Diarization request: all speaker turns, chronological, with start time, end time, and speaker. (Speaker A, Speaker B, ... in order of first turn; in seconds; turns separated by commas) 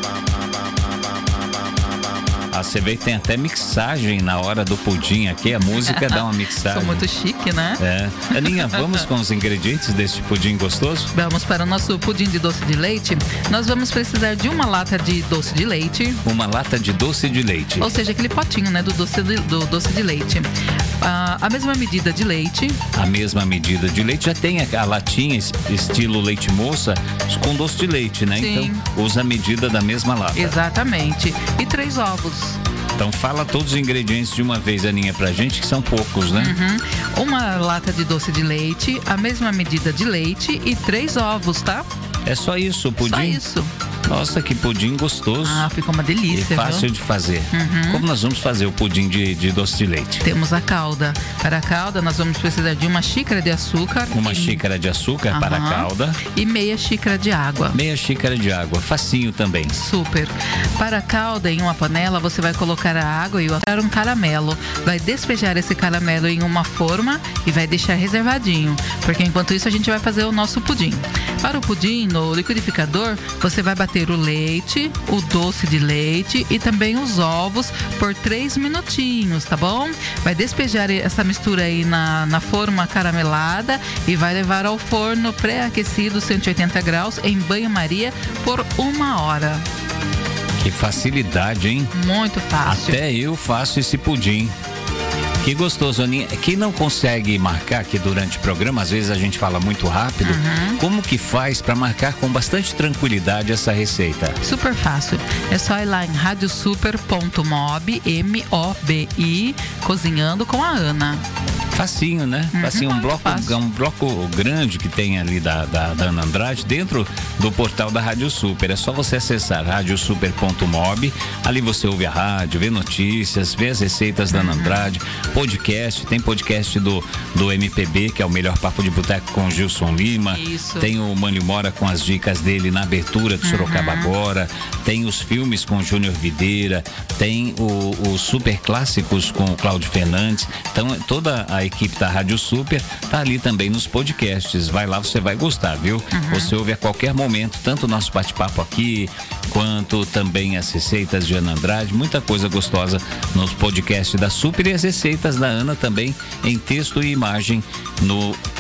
Speaker A: 2.5-7.0, Speaker B: 5.6-9.1, Speaker A: 7.8-11.1, Speaker B: 11.1-16.2, Speaker A: 16.2-17.9, Speaker B: 17.8-22.8, Speaker A: 22.9-30.6, Speaker B: 28.3-28.8, Speaker B: 30.3-32.6, Speaker A: 33.0-36.6, Speaker B: 36.4-41.9, Speaker A: 42.2-43.4, Speaker B: 43.0-43.7, Speaker A: 44.1-45.7, Speaker B: 45.4-46.9, Speaker A: 46.3-50.2, Speaker B: 47.5-48.0, Speaker B: 50.2-54.6, Speaker A: 54.1-56.2, Speaker B: 55.3-57.8, Speaker A: 57.7-59.8, Speaker B: 59.7-89.6, Speaker A: 90.6-91.9, Speaker B: 91.9-93.0, Speaker A: 92.6-94.5, Speaker A: 95.4-104.4, Speaker B: 100.2-100.8, Speaker B: 104.4-111.2, Speaker A: 111.7-158.4, Speaker B: 112.5-113.6, Speaker B: 124.3-124.9, Speaker B: 130.3-130.9, Speaker B: 133.4-134.1, Speaker B: 146.1-146.5